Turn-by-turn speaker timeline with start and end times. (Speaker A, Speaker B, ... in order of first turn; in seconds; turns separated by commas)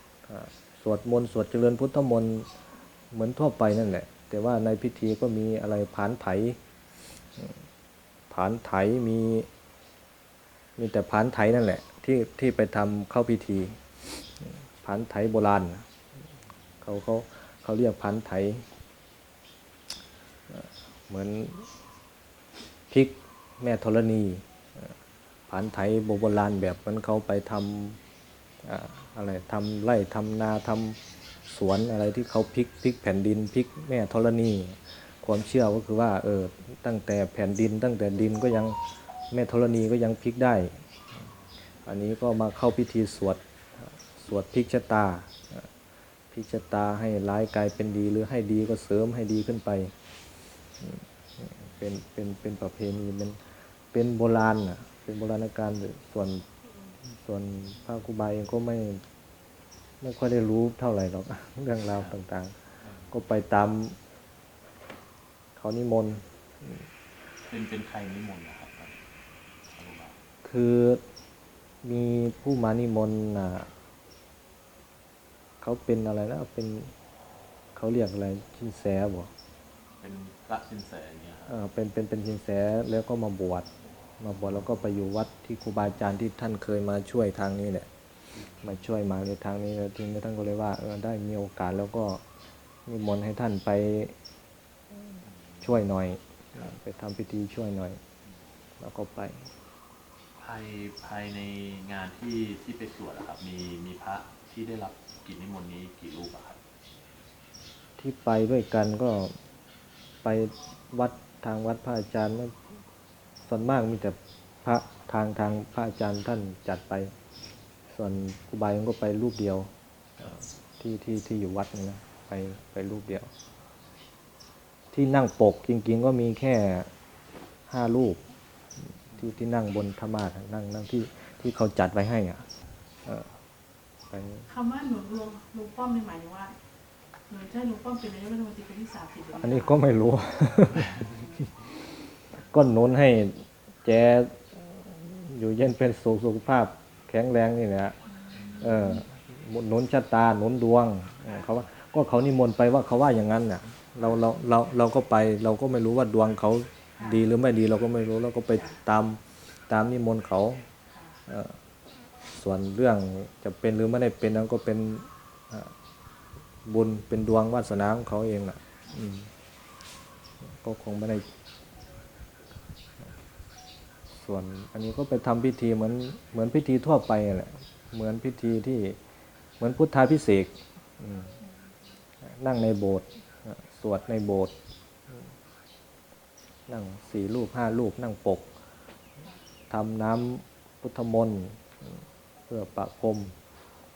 Speaker A: 0.3-2.5, Speaker A: 3.1-6.6, Speaker A: 8.3-9.5, Speaker A: 10.8-15.8, Speaker A: 16.8-18.6, Speaker A: 20.5-21.7, Speaker A: 22.9-24.9, Speaker A: 25.5-28.0, Speaker A: 28.6-38.8, Speaker A: 39.3-40.8, Speaker A: 41.9-45.7, Speaker A: 46.3-49.9, Speaker A: 50.8-53.4, Speaker A: 53.9-56.4, Speaker A: 57.1-59.0, Speaker A: 60.0-62.5, Speaker A: 63.1-64.0, Speaker A: 65.6-66.8, Speaker B: 67.5-69.0, Speaker B: 69.7-70.1, Speaker A: 70.4-71.0, Speaker A: 71.8-73.7, Speaker A: 75.6-76.9, Speaker A: 77.8-79.3, Speaker B: 80.0-81.5, Speaker A: 81.5-83.7, Speaker A: 84.2-87.9, Speaker A: 88.6-92.2, Speaker A: 92.9-94.1, Speaker A: 95.6-98.0, Speaker A: 98.8-99.5, Speaker B: 100.4-106.6, Speaker A: 108.0-109.3, Speaker A: 110.2-112.6, Speaker A: 113.4-117.1, Speaker A: 117.9-123.3, Speaker A: 124.9-126.9, Speaker A: 127.7-128.2, Speaker A: 128.8-132.4, Speaker A: 134.1-134.4, Speaker C: 134.5-136.6, Speaker C: 137.3-139.8, Speaker A: 139.3-141.5, Speaker A: 142.4-147.9, Speaker C: 148.2-149.0, Speaker A: 148.6-160.6, Speaker C: 157.0-157.3, Speaker C: 158.5-158.8, Speaker C: 160.9-161.2, Speaker A: 161.3-161.6, Speaker A: 162.3-165.7, Speaker A: 166.7-169.3, Speaker A: 170.4-171.2, Speaker A: 174.1-179.0, Speaker A: 179.6-181.3, Speaker A: 182.2-184.5, Speaker A: 186.7-188.5, Speaker A: 189.7-193.3